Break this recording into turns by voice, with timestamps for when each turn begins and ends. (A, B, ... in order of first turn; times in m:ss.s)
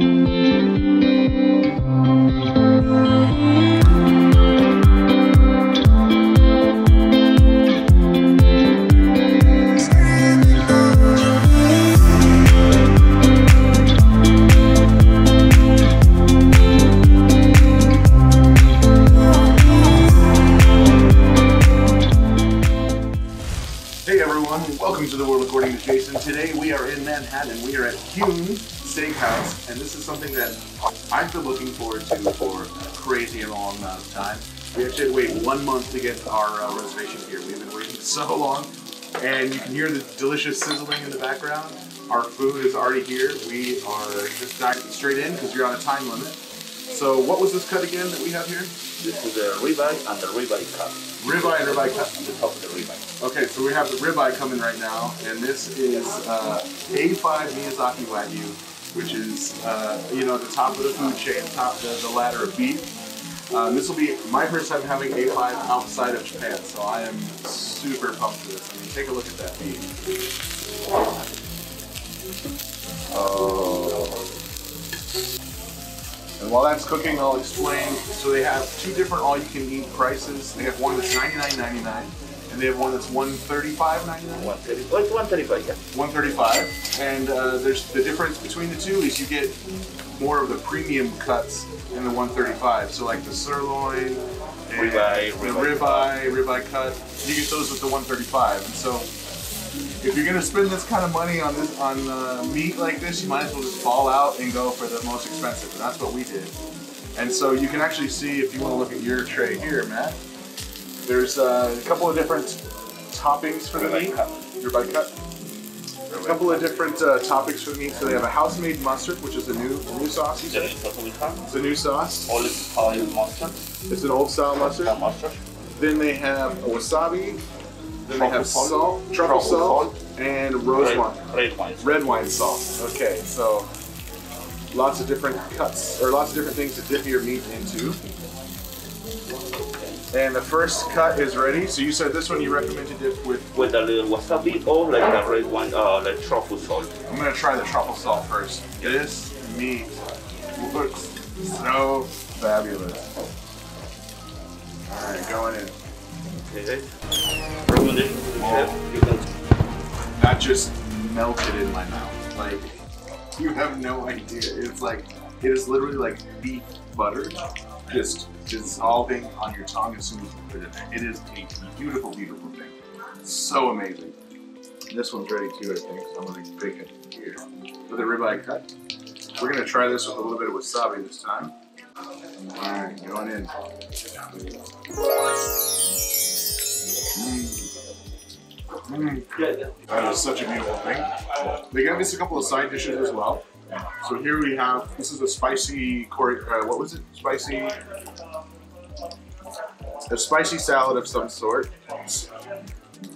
0:24.0-0:46.4 A
0:46.9-0:48.7 A
0:49.0-0:53.0 B
0:51.2-0:52.2 A
0:53.2-1:02.9 A
1:03.5-1:09.9 A
1:13.1-1:14.2 A
1:16.4-1:24.5 A
1:24.4-1:25.8 B
1:25.9-1:29.6 A
1:30.2-1:39.1 A
1:34.8-1:36.2 B
1:40.0-1:46.5 A
1:47.2-1:50.2 A
1:51.0-1:52.6 A
1:53.1-1:55.1 A
1:53.7-1:54.4 B
1:56.1-1:56.7 B
1:56.2-2:00.7 A
2:00.4-2:01.5 B
2:01.5-2:02.4 A
2:02.3-2:03.6 B
2:03.9-2:05.0 A
2:04.6-2:05.4 B
2:05.7-2:07.4 A
2:08.1-2:13.7 A
2:08.1-2:10.0 B
2:10.8-2:12.3 B
2:14.7-2:18.0 A
2:20.1-2:23.5 A
2:23.5-2:26.9 B
2:27.1-2:30.0 A
2:30.6-2:33.1 A
2:34.9-2:35.8 A
2:36.5-2:36.9 B
2:37.7-2:39.2 B
2:38.4-2:38.7 A
2:40.2-2:42.7 A
2:43.4-2:54.2 A
2:54.9-2:58.7 A
2:59.4-3:01.5 A
3:02.5-3:03.5 A
3:07.1-3:07.7 A
3:08.9-3:09.3 A
3:09.9-3:11.1 A
3:11.7-3:17.8 A
3:20.1-3:22.3 A